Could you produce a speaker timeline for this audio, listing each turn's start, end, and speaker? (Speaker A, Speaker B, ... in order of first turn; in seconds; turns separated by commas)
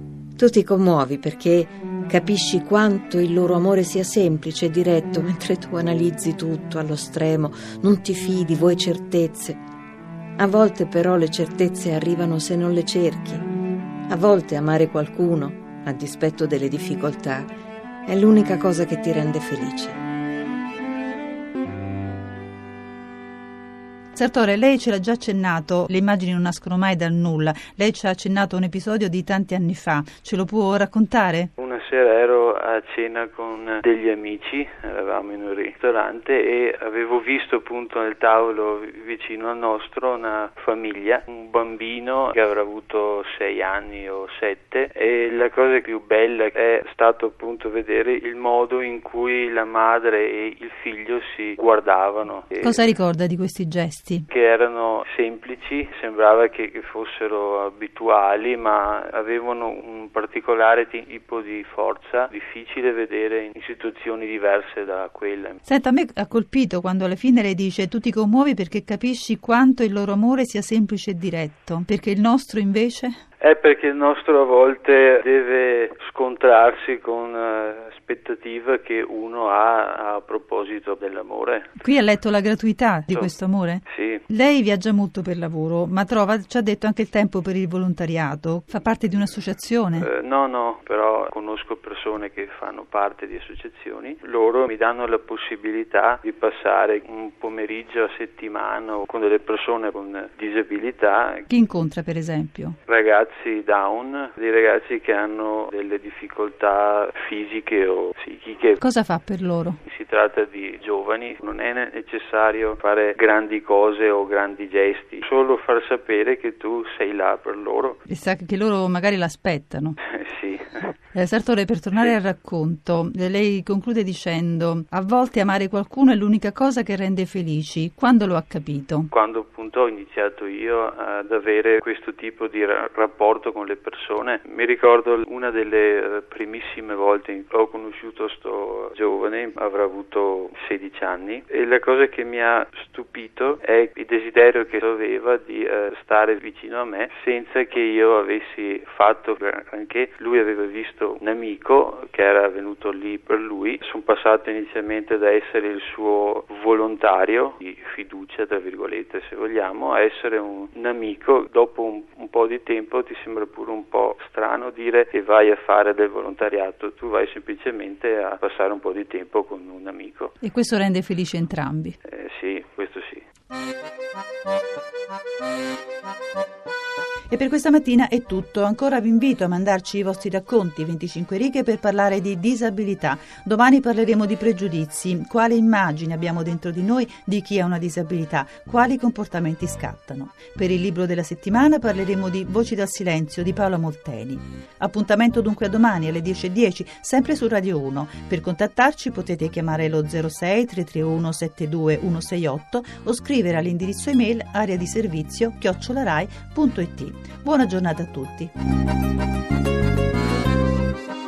Speaker A: 0.4-9.6, Speaker A: 10.4-13.4, Speaker A: 14.1-17.5, Speaker A: 18.1-20.0, Speaker B: 24.2-31.5, Speaker C: 31.6-52.9, Speaker B: 52.6-54.3, Speaker C: 54.3-65.6, Speaker B: 65.7-73.2, Speaker C: 73.4-81.7, Speaker B: 81.8-90.1, Speaker C: 83.9-84.2, Speaker C: 90.0-101.5, Speaker B: 101.5-102.8, Speaker C: 102.9-108.8, Speaker B: 108.8-109.8, Speaker C: 109.8-118.0, Speaker B: 118.1-120.0, Speaker C: 120.1-120.9, Speaker B: 121.1-129.1, Speaker C: 129.1-170.3, Speaker B: 170.4-172.0, Speaker C: 172.0-173.2, Speaker B: 177.3-208.5